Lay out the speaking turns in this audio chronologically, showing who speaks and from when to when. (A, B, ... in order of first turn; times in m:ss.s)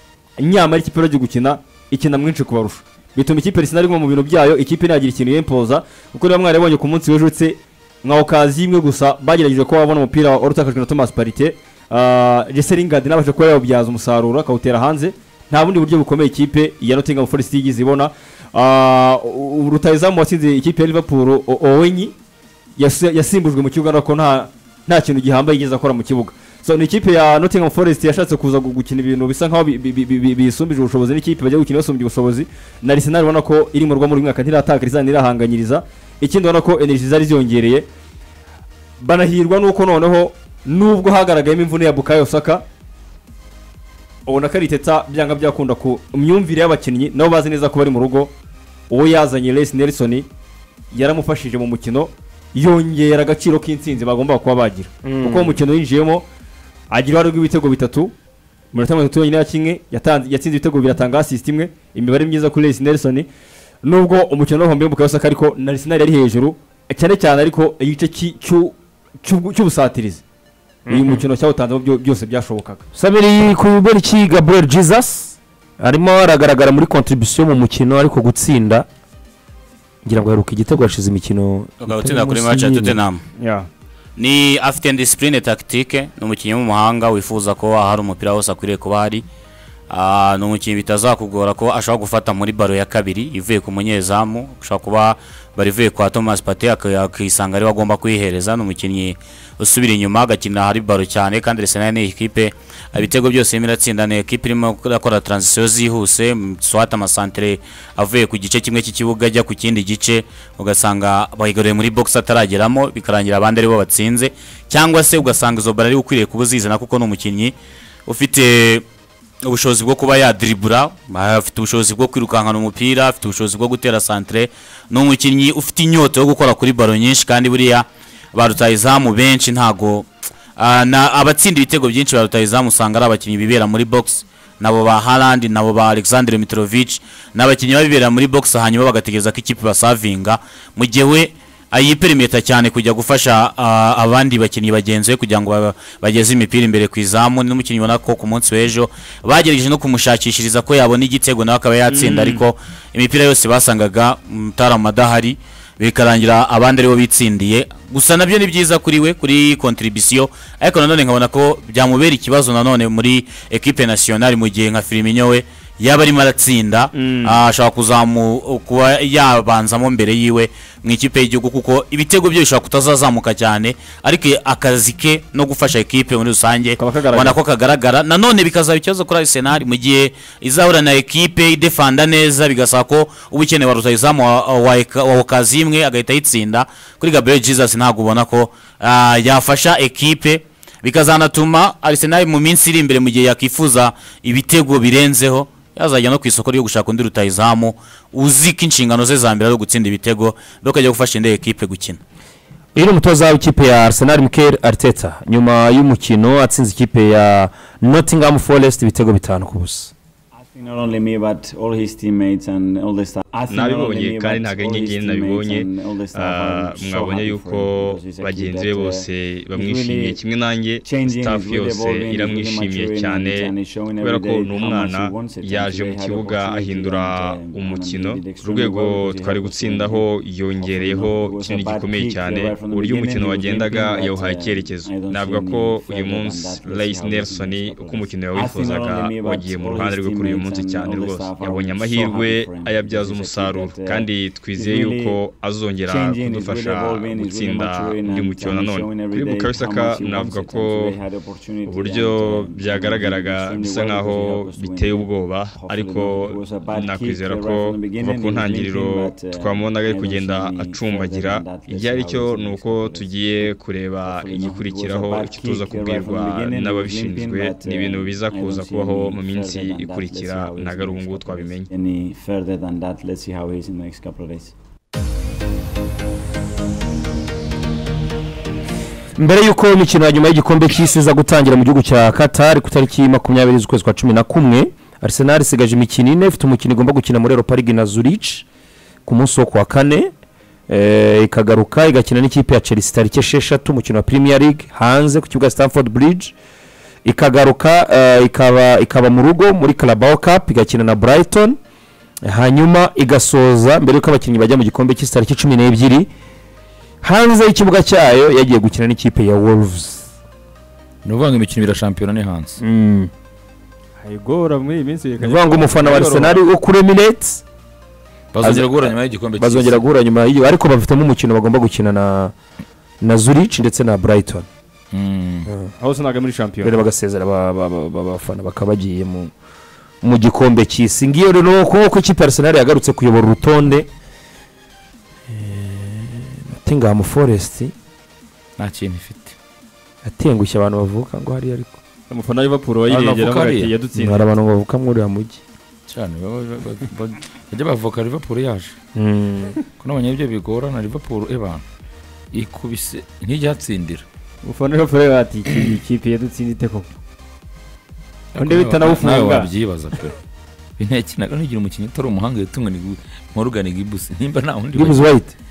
0:00.4-0:22.1 A
0:22.8-0:37.9 A
0:39.0-0:42.6 A
0:44.2-0:48.3 A
0:48.9-0:50.3 A
0:50.9-0:56.2 A
0:55.0-0:55.6 B
0:56.9-0:58.1 A
0:58.7-1:03.3 A
1:03.8-1:10.2 A
1:10.9-1:11.2 B
1:10.9-1:12.8 A
1:12.9-1:18.9 B
1:20.0-1:23.0 B
1:21.8-1:23.2 C
1:23.4-1:23.7 A
1:24.2-1:29.2 C
1:29.9-1:57.5 C
1:58.0-1:58.8 C
1:59.4-3:22.0 C
2:31.9-2:32.4 A
2:46.9-2:47.4 A
2:56.8-2:57.4 A
3:22.7-3:29.9 B
3:30.3-3:40.2 D
3:33.5-3:37.5 A
3:36.9-3:40.6 E
3:40.2-3:40.8 A
3:40.8-4:05.2 D
3:41.2-3:43.5 E
3:43.2-3:45.2 A
3:45.4-3:46.6 E
3:46.6-3:49.2 A
3:48.4-3:52.2 E
3:51.8-3:53.1 A
3:53.1-4:11.0 E
3:57.9-3:58.3 A
4:01.4-4:02.0 A
4:05.9-4:23.5 D
4:08.6-4:09.0 A
4:11.7-4:31.5 E
4:19.6-4:20.7 A
4:24.0-4:34.5 D
4:29.2-4:29.6 A
4:39.2-4:48.4 B
4:49.0-4:50.1 B
4:50.7-4:56.3 B
4:57.0-5:01.6 B
5:02.2-5:06.1 B
5:07.0-5:10.1 B
5:11.0-5:12.6 F
5:12.6-5:13.1 B
5:14.0-5:16.4 A
5:15.2-5:17.4 B
5:18.3-5:19.8 F
5:18.4-5:22.3 B
5:23.0-5:24.5 B
5:24.9-5:25.5 F
5:25.8-5:26.8 A
5:26.6-5:29.3 B
5:30.0-5:33.9 B
5:35.3-5:37.7 B
5:38.6-5:39.4 F
5:40.0-5:41.8 B
5:42.1-5:44.3 A
5:42.9-5:43.7 F
5:43.9-5:45.4 B
5:45.9-5:48.8 F
5:48.9-5:49.6 B
5:49.8-5:51.6 F
5:52.3-5:54.0 F
5:54.4-5:56.9 A
5:58.3-5:59.5 A
5:58.3-6:00.2 F
6:00.8-6:05.1 F
6:04.7-6:05.3 B